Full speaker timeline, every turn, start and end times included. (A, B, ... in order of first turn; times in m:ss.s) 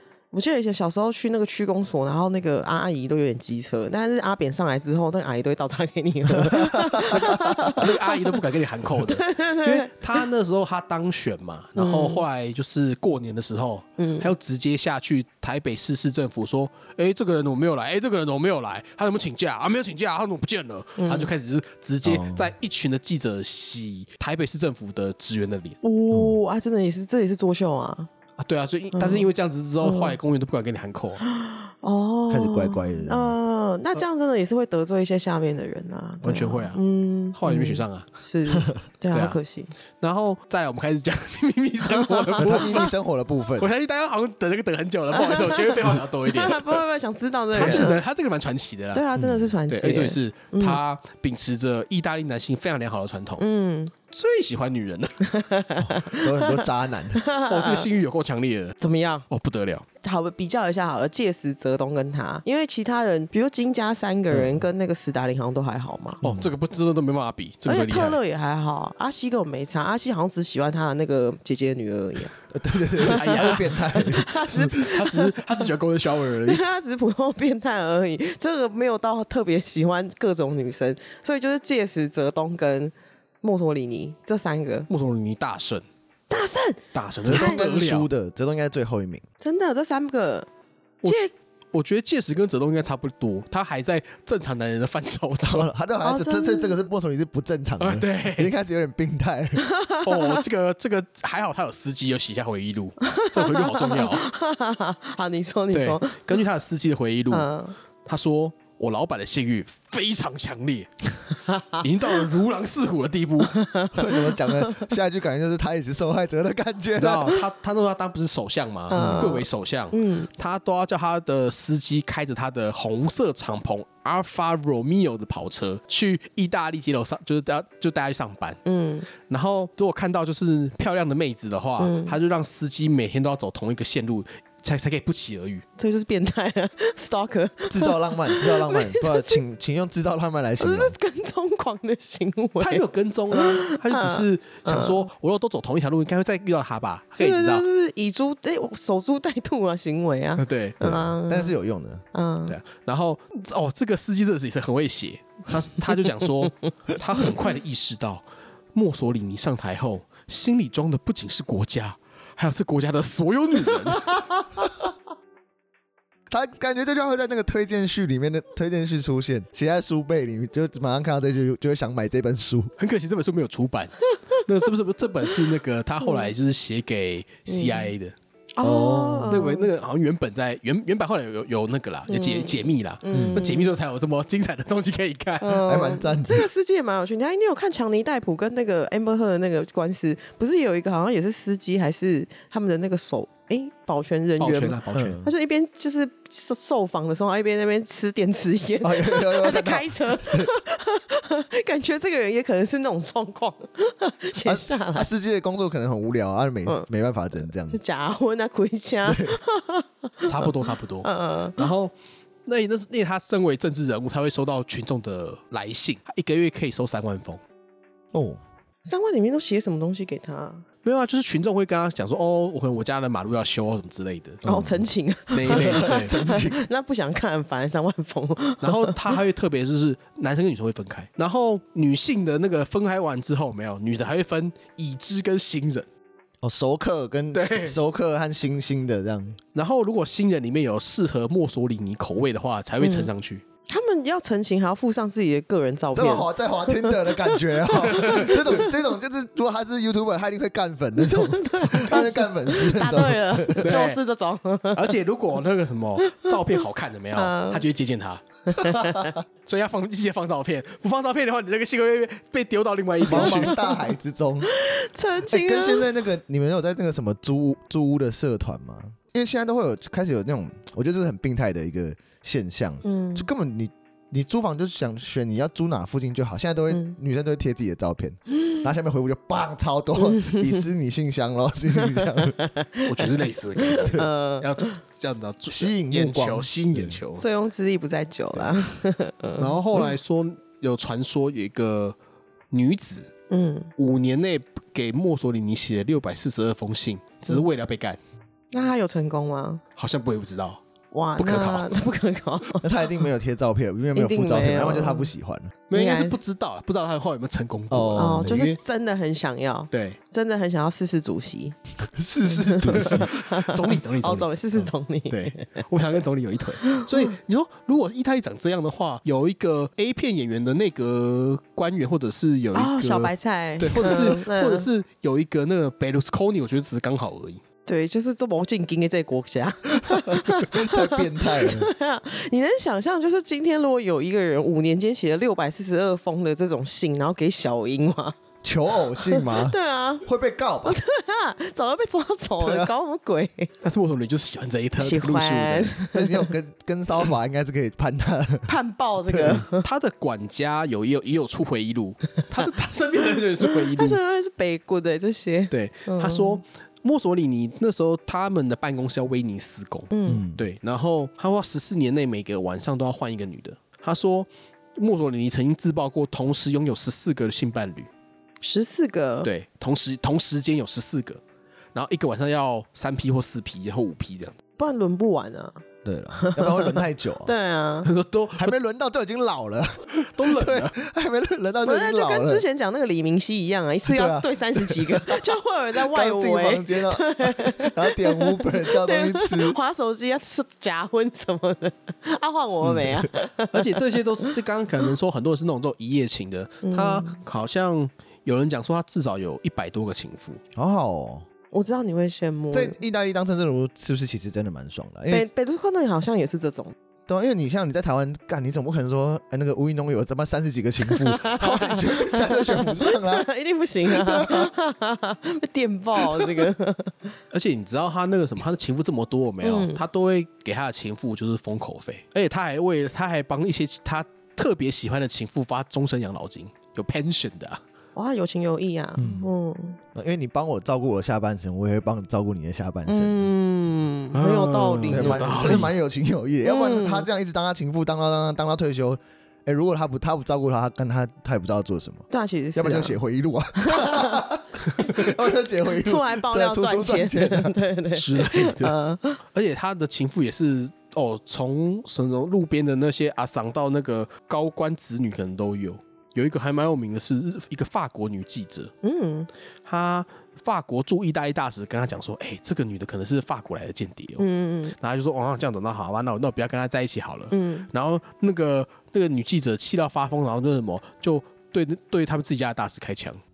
0:00.3-0:08.4 A
0:06.3-0:07.7 B
0:07.7-0:25.8 C
0:09.0-0:10.2 A
0:11.8-0:12.2 A
0:14.0-0:14.3 A
0:21.0-0:21.3 A
0:22.0-0:22.5 B
0:25.8-0:28.1 A
0:28.4-0:31.2 C
0:28.9-0:29.3 A
0:29.8-0:30.2 A
0:31.2-0:39.7 A
0:32.3-0:33.4 B
0:36.2-0:36.8 C
0:37.3-0:38.1 C
0:39.1-0:39.4 C
0:40.0-0:42.9 C
0:41.9-0:42.9 A
0:42.4-0:43.7 B
0:43.6-0:46.8 C
0:45.1-0:48.0 A
0:47.5-0:49.0 C
0:47.5-0:47.9 B
0:48.9-0:50.8 A
0:49.1-0:49.6 B
0:49.7-0:53.4 C
0:53.4-0:53.9 A
0:54.1-0:55.2 C
0:55.2-0:57.8 A
0:55.8-0:57.2 B
0:57.5-0:58.8 C
0:58.8-0:59.2 A
0:59.3-0:59.8 C
1:00.0-1:06.2 A
1:04.3-1:04.6 B
1:06.2-1:06.5 B
1:06.2-1:08.2 C
1:07.6-1:12.3 A
1:12.5-1:14.4 B
1:13.0-1:16.6 C
1:13.0-1:15.7 A
1:16.4-1:24.9 A
1:24.9-1:25.8 C
1:26.3-1:27.6 A
1:26.9-1:28.1 C
1:27.2-1:29.2 B
1:29.4-1:30.5 A
1:31.0-1:35.7 C
1:31.0-1:31.3 A
1:35.4-1:39.6 B
1:36.0-1:36.8 A
1:37.8-1:38.5 C
1:39.6-1:40.4 A
1:40.0-1:44.2 C
1:43.0-1:46.4 A
1:45.7-1:47.5 C
1:47.3-1:47.8 A
1:48.0-1:53.6 C
1:51.5-1:51.8 A
1:53.5-1:54.9 A
1:53.9-1:57.4 B
1:57.0-2:08.6 C
1:58.9-2:00.3 A
2:08.6-2:09.1 A
2:09.2-2:15.6 C
2:11.8-2:12.2 A
2:15.8-2:19.4 A
2:17.7-2:21.0 B
2:20.6-2:25.1 A
2:22.6-2:27.6 C
2:27.2-2:31.5 A
2:30.4-2:30.8 C
2:30.8-2:32.0 B
2:32.1-2:32.6 A
2:32.5-2:38.2 C
2:38.7-2:44.2 C
2:46.3-2:52.7 B
2:52.8-2:58.1 C
2:56.0-2:56.3 A
2:57.5-2:57.9 A
2:58.6-2:59.7 A
2:58.6-2:59.4 B
2:59.3-3:05.6 C
3:02.1-3:03.7 A
3:03.1-3:03.5 B
3:05.4-3:25.1 A
3:05.6-3:06.5 B
3:14.4-3:15.2 C
3:14.9-3:15.3 B
3:18.8-3:20.5 B
3:24.4-3:27.8 B
3:27.7-3:31.7 A
3:29.0-3:29.4 B
3:30.2-3:31.9 C
3:32.4-3:37.4 C
3:38.1-3:38.4 B
3:38.8-3:40.6 A
3:40.8-3:44.4 C
3:44.4-3:44.8 B
3:44.4-3:49.1 A
3:45.3-3:46.2 C
3:45.5-3:46.6 B
3:48.6-3:55.9 C
3:56.4-3:59.4 B
3:57.3-3:57.8 C
3:59.5-4:03.4 C
4:02.8-4:03.1 A
4:03.7-4:08.7 A
4:05.9-4:13.8 B
4:07.8-4:08.3 C
4:11.0-4:14.9 A
4:13.6-4:14.0 C
4:14.7-4:18.2 C
4:16.0-4:16.6 A
4:17.1-4:17.6 A
4:18.5-4:19.2 A
4:18.6-4:19.1 B
4:19.4-4:23.6 C
4:23.0-4:24.5 B
4:23.1-4:23.9 A
4:24.4-4:25.9 A
4:25.3-4:42.4 B
4:32.8-4:33.3 A
4:40.0-4:40.6 A
4:41.8-4:44.7 A
4:42.8-4:47.2 C
4:45.5-4:47.0 B
4:47.2-4:49.9 A
4:49.4-4:52.0 C
4:52.5-4:53.1 C
4:53.3-4:53.7 A
4:53.8-4:58.0 C
4:58.5-4:59.6 A
4:59.8-5:00.6 C
5:00.9-5:03.0 A
5:01.2-5:01.8 C
5:02.6-5:05.5 B
5:03.9-5:05.1 A
5:05.7-5:08.6 C
5:05.7-5:06.2 A
5:07.7-5:08.5 B
5:08.0-5:11.6 A
5:09.7-5:10.0 C
5:11.9-5:13.1 B
5:12.2-5:15.7 A
5:12.7-5:27.4 C
5:16.6-5:17.1 A
5:22.5-5:24.7 A
5:23.8-5:24.1 B
5:27.6-5:38.2 A
5:29.9-5:31.7 B
5:38.4-5:40.8 B
5:38.9-5:40.0 A
5:40.6-5:43.5 A
5:42.4-5:42.7 B
5:43.6-5:45.8 C
5:44.8-5:46.3 A
5:45.9-5:48.5 B
5:48.5-5:49.6 A
5:49.1-5:49.4 B
5:49.2-5:54.0 C
5:53.4-5:56.4 A
5:55.5-6:07.9 C
5:59.9-6:00.2 A
6:00.1-6:00.4 B
6:08.4-6:09.3 A
6:09.2-6:11.2 C
6:11.7-6:14.3 C
6:14.6-6:15.6 A
6:15.8-6:17.3 B
6:16.1-6:17.9 A
6:17.8-6:18.5 C
6:18.4-6:22.4 B
6:20.0-6:20.7 C
6:21.6-6:34.3 A
6:23.8-6:29.6 B
6:33.5-6:40.4 C
6:36.6-6:37.2 A
6:40.6-6:41.2 B
6:41.5-6:42.8 A
6:42.5-6:45.2 B
6:45.1-6:46.7 A
6:47.1-6:53.3 B
6:50.8-6:57.1 A
6:53.8-6:54.5 B
6:56.0-6:56.5 B
6:57.3-7:07.6 C
6:59.4-6:59.8 A
7:08.0-7:09.8 A
7:09.0-7:09.3 B
7:09.9-7:13.3 B
7:12.9-7:15.7 A
7:14.1-7:15.7 C
7:14.9-7:27.5 B
7:16.4-7:17.1 A
7:22.1-7:23.0 A
7:23.6-7:24.2 A
7:25.8-7:29.2 A
7:27.9-7:28.8 C
7:29.3-7:38.7 C
7:38.8-7:39.3 A
7:39.6-7:53.2 C
7:44.2-7:44.7 A
7:47.3-7:47.7 A